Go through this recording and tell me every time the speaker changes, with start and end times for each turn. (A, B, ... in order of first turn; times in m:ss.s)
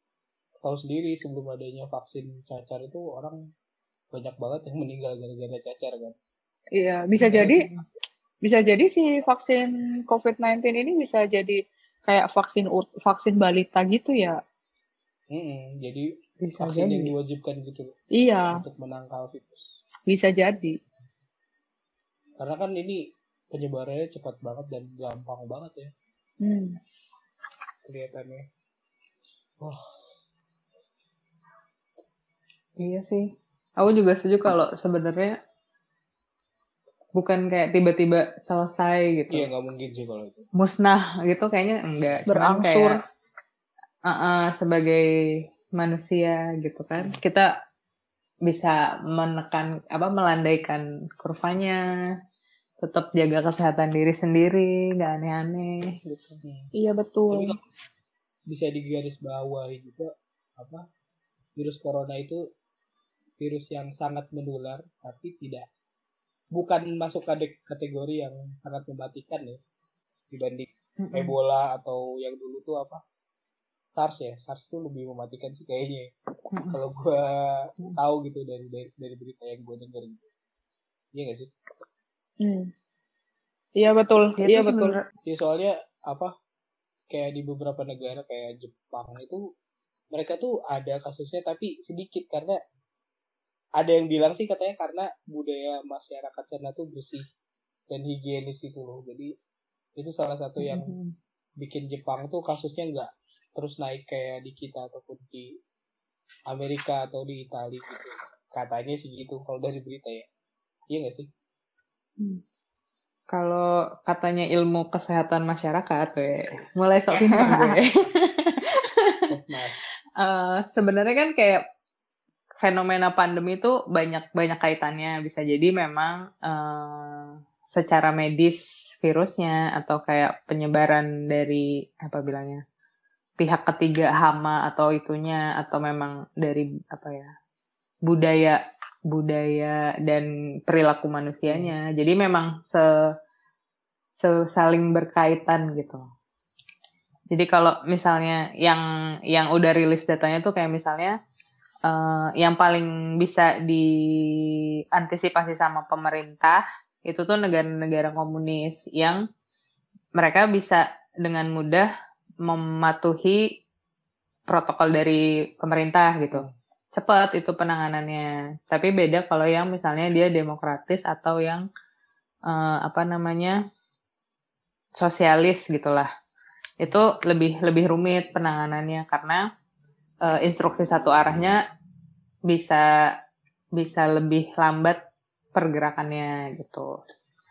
0:00.6-0:03.4 A
0:04.1-0:06.2 A
0:06.8-0:07.6 B
0:07.2-0:07.5 A
0:07.3-0:07.8 C
0:08.4-0:14.4 B
0:15.3-0:16.1 A
0:16.4-0:17.1 C
0:16.6-0:17.9 A
0:18.2-0:18.6 B
0:18.5-0:19.7 A
0:20.1-0:20.8 B
0:22.4-0:23.0 A
0:23.5-0:25.9 A
0:26.4-0:26.8 B
0:27.8-0:28.4 A
0:29.6-0:29.9 A
0:32.8-0:35.4 C
0:37.2-0:39.5 C
0:39.3-0:40.4 A
0:40.6-0:43.0 C
0:42.3-0:43.0 B
0:44.1-0:45.0 C
0:45.8-0:47.5 C
0:48.4-0:51.8 C
0:52.8-0:56.4 C
0:56.4-0:56.7 A
0:56.7-0:57.5 B
0:57.3-0:57.6 A
0:58.5-1:00.8 A
1:01.6-1:02.4 A
1:03.4-1:05.6 A
1:06.5-1:09.6 A
1:10.3-1:13.0 A
1:11.0-1:11.3 C
1:14.0-1:16.1 A
1:16.7-1:20.3 A
1:21.1-1:21.5 A
1:22.4-1:22.7 B
1:23.8-1:25.0 B
1:24.4-1:25.0 C
1:25.2-1:26.3 A
1:27.1-1:29.4 A
1:30.1-1:32.6 A
1:33.8-1:37.2 A
1:37.9-1:39.3 A
1:40.0-1:40.9 A
1:40.6-1:41.1 C
1:41.6-1:45.5 A
1:46.5-1:50.3 A
1:50.9-1:51.3 A
1:53.3-1:59.2 C
1:56.6-1:58.0 A
1:59.3-1:59.8 A
2:00.2-2:01.6 C
2:02.6-2:12.6 C
2:13.4-2:17.3 C
2:18.1-2:18.6 C
2:19.1-2:22.9 C
2:21.5-2:21.8 A
2:24.2-2:26.0 C
2:27.3-2:31.1 C
2:31.9-2:39.2 C
2:40.2-2:41.9 C
2:42.4-2:43.6 C
2:44.5-2:51.6 C
2:52.5-2:53.6 C
2:55.0-2:56.1 C
2:56.8-2:59.4 C
3:00.2-3:01.6 C
3:02.5-3:02.8 C
3:03.8-3:05.0 C
3:05.5-3:07.0 C